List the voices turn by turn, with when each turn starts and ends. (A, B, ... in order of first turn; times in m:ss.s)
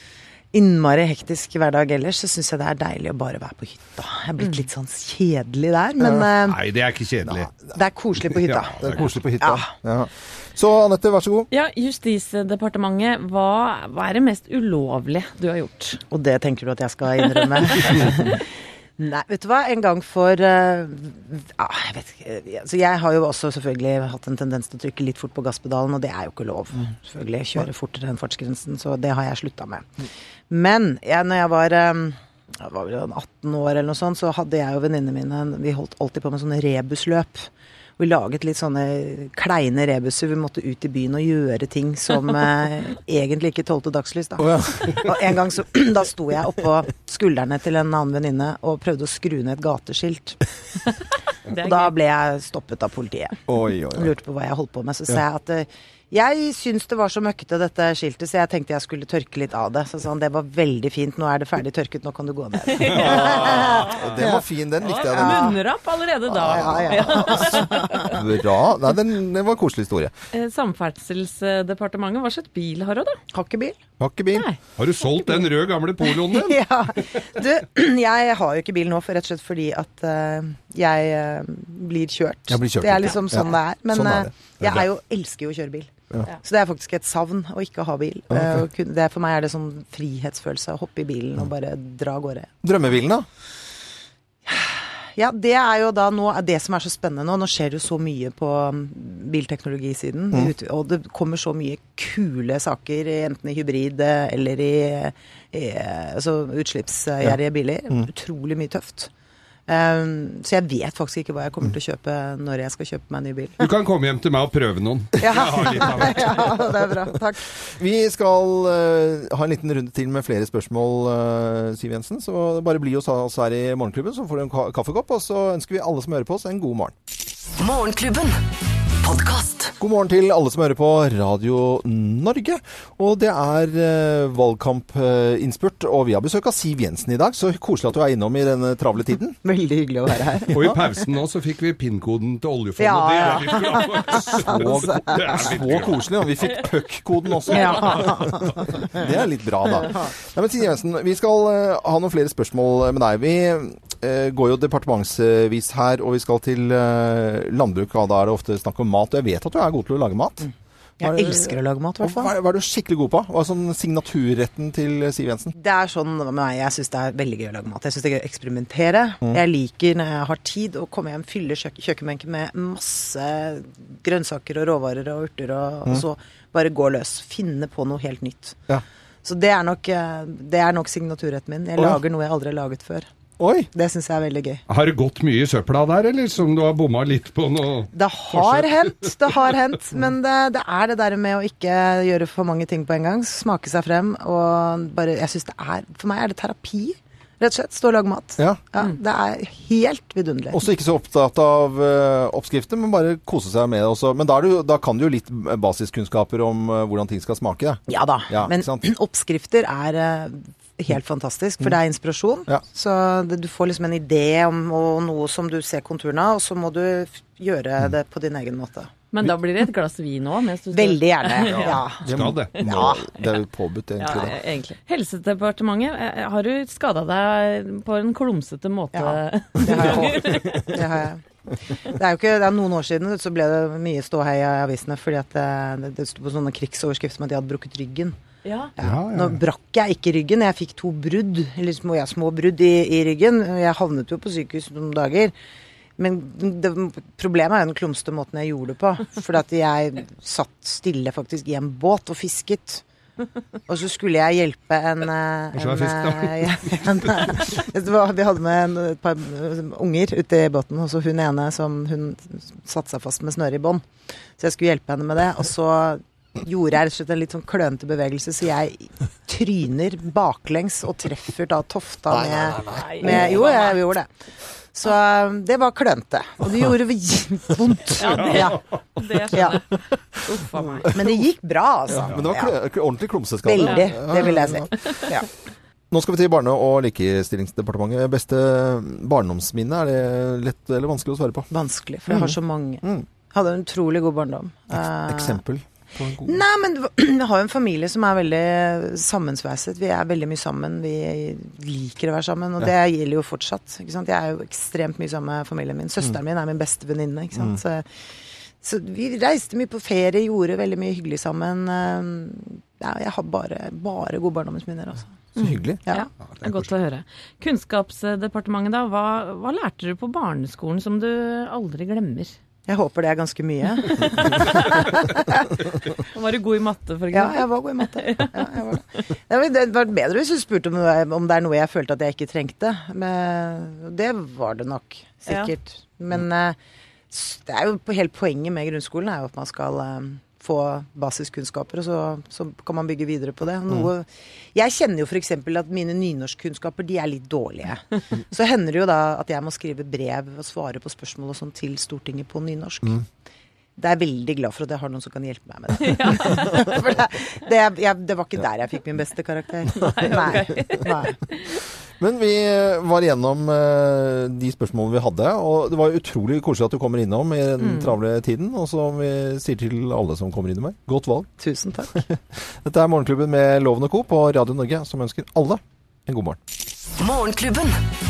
0:00.5-0:06.6 A
0:04.4-0:04.7 B
0:06.0-0:06.2 C
0:06.4-0:07.5 D
0:07.7-0:09.7 A
0:08.4-0:09.1 D
0:08.8-0:11.5 C
0:11.5-0:16.0 B
0:16.1-0:18.4 A
0:19.0-0:29.9 A
0:30.5-0:37.4 A
0:38.0-0:50.4 A
0:44.4-0:45.2 C
0:51.5-0:51.9 B
0:51.6-0:53.4 A
0:53.5-0:54.1 C
0:53.9-1:04.4 A
1:02.8-1:05.6 C
1:04.8-1:08.2 B
1:05.0-1:05.6 A
1:06.3-1:07.5 C
1:06.3-1:08.2 A
1:08.1-1:10.1 C
1:10.3-1:13.2 B
1:13.3-1:13.8 A
1:14.0-1:14.5 C
1:14.8-1:16.6 D
1:16.2-1:32.5 A
1:22.5-1:24.3 C
1:28.3-1:28.6 C
1:32.6-1:33.2 C
1:34.4-1:49.1 A
1:49.7-1:53.6 A
1:53.6-1:56.6 D
1:55.2-1:57.5 A
1:57.8-2:06.9 C
2:07.6-2:08.4 E
2:09.0-2:09.7 E
2:09.8-2:19.4 C
2:19.4-2:20.8 A
2:20.5-2:26.1 D
2:20.5-2:20.8 C
2:22.8-2:25.5 A
2:24.5-2:40.5 C
2:27.5-2:29.0 A
2:29.6-2:30.1 A
2:41.0-2:42.3 A
2:41.0-2:45.5 C
2:45.5-2:58.6 A
2:59.2-3:03.0 A
3:03.4-3:03.7 C
3:03.7-3:04.6 A
3:04.7-3:09.1 D
3:07.9-3:20.6 A
3:20.5-3:28.8 C
3:27.9-3:38.9 A
3:39.1-3:41.8 B
3:40.7-3:43.0 A
3:42.0-3:44.4 C
3:42.1-3:42.6 D
3:44.0-3:50.7 B
3:48.9-3:51.2 A
3:51.8-3:58.2 A
3:58.4-3:58.7 B
3:58.8-4:05.3 A
3:58.8-3:59.4 D
4:06.0-4:12.8 A
4:13.7-4:23.8 A
4:15.5-4:17.4 D
4:24.4-4:34.1 A
4:32.7-4:33.8 B
4:33.0-4:33.3 C
4:34.7-4:38.7 A
4:38.0-4:40.9 B
4:39.2-4:39.7 A
4:40.9-4:42.6 A
4:42.0-4:44.7 C
4:43.4-4:45.3 A
4:43.6-4:43.9 B
4:45.9-4:51.5 C
4:51.5-4:55.4 A
4:52.1-4:53.0 C
4:54.8-4:56.4 C
4:56.2-5:07.8 A
5:08.6-5:15.3 A
5:15.4-5:15.8 C
5:15.4-5:22.3 B
5:22.7-5:26.0 A
5:24.0-5:24.6 B
5:26.1-5:28.5 B
5:27.1-5:36.6 A
5:35.3-5:35.5 B
5:37.1-5:53.0 A
5:53.8-6:01.2 A
5:55.8-5:56.6 B
5:59.8-6:01.4 B
5:59.8-6:00.4 C
6:02.0-6:11.3 C
6:07.6-6:07.9 B
6:11.4-6:12.0 A
6:11.9-6:16.4 C
6:17.0-6:17.8 E